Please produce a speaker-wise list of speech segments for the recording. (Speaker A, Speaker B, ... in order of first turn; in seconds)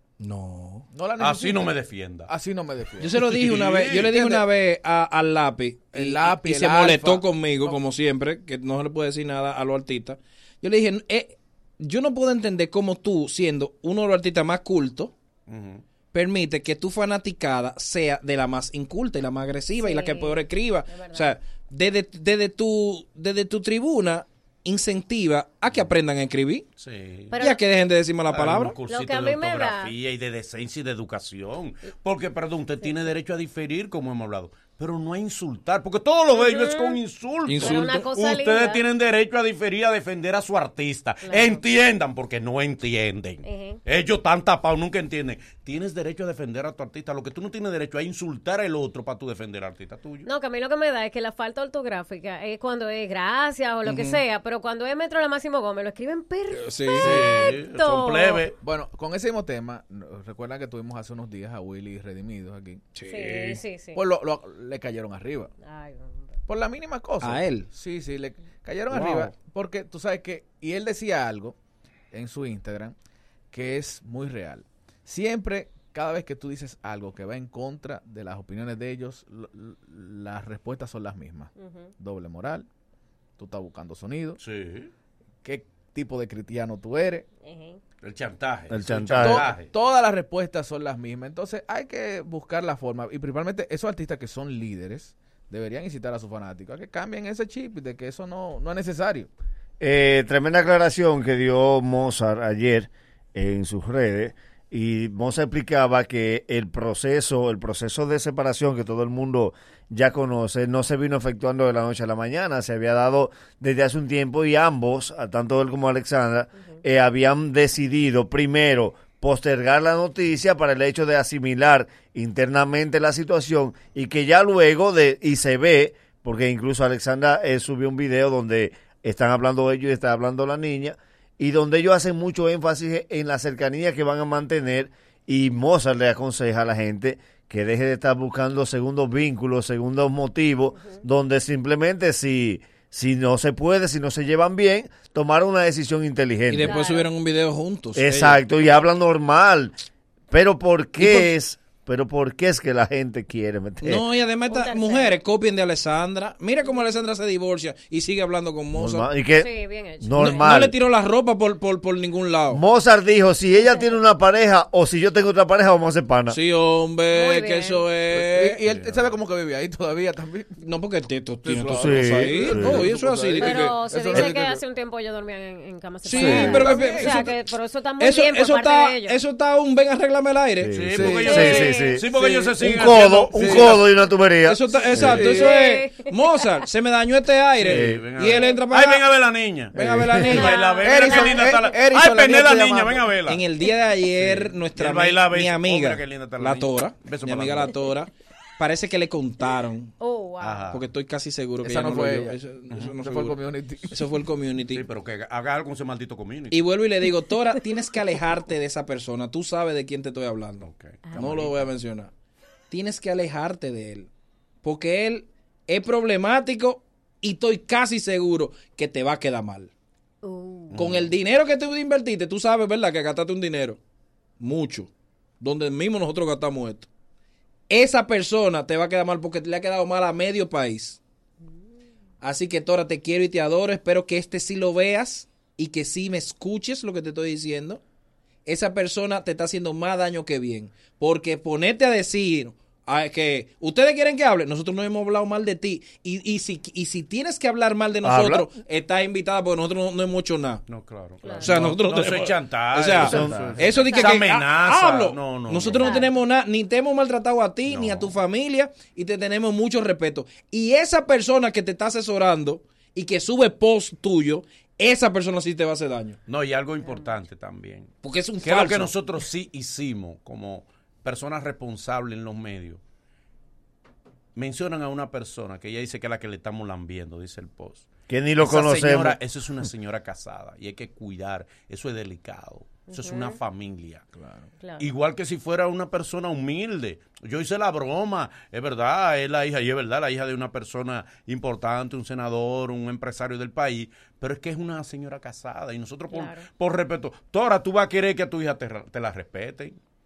Speaker A: 0.2-0.8, 3.0-15.1, 16.1-26.6, 27.4-28.8, 37.5-38.1, 53.8-54.2, 56.5-57.2, 62.9-63.6, 67.2-67.7, 68.9-69.3, 146.5-148.4, 153.8-159.1, 160.2-162.6, 166.3-168.6, 170.6-173.8, 176.0-177.3, 178.0-180.7, 184.4-189.0, 189.7-190.5, 193.2-199.9, 200.7-203.3, 203.9-204.8, 206.5-212.1, 212.7-214.1, 214.6-219.7, 220.7-223.8, 224.4-226.9, 227.7-231.0, 232.2-237.8, 238.4-250.6, 251.4-266.2, 268.0-268.9
Speaker B: 0.9-3.2, 4.0-4.5, 5.9-7.8, 58.6-62.9, 63.9-65.5, 66.5-71.5, 72.1-72.9, 73.5-82.7, 83.4-84.4, 85.4-87.3, 89.2-99.3, 168.1-170.5, 171.4-174.6, 176.3-177.3, 180.9-181.4, 182.1-182.5, 183.3-183.8, 184.9-185.5, 190.8-193.1, 201.6-202.4, 203.0-204.0, 253.2-253.7, 284.2-284.5
Speaker C: 1.2-2.3, 3.2-4.1, 15.5-15.8, 26.8-27.4, 28.3-50.3, 56.9-58.5, 84.4-84.9, 88.0-89.7, 168.6-169.1, 180.7-183.8, 187.6-193.4, 194.2-197.7, 200.4-200.8, 204.7-206.7, 210.6-211.7, 220.7-221.1, 250.7-256.0, 257.6-258.1, 266.3-272.8, 274.3-284.0, 284.8-299.8
Speaker D: 19.8-21.3, 27.3-27.6, 28.8-29.9, 36.3-37.0, 37.6-38.8, 41.2-41.6, 43.4-43.8, 50.2-58.5, 63.1-64.0, 65.6-66.4, 81.6-81.9, 87.4-87.8, 146.6-147.1, 154.4-155.2, 159.3-160.4, 167.1-167.9, 173.4-179.2, 181.2-182.0, 185.2-186.4, 190.1-191.7, 200.0-200.8, 211.1-211.4, 220.2-220.8, 251.2-251.6, 253.7-254.2, 255.7-256.1, 282.9-283.4, 284.6-284.9, 296.1-296.5
Speaker E: 88.7-89.5, 99.8-146.7, 147.9-149.7, 150.3-154.1, 158.7-160.7, 162.5-166.4, 171.7-172.9, 176.2-176.6, 180.6-185.3, 187.6-188.0, 189.8-190.5, 248.0-248.5, 252.9-253.6, 278.1-279.2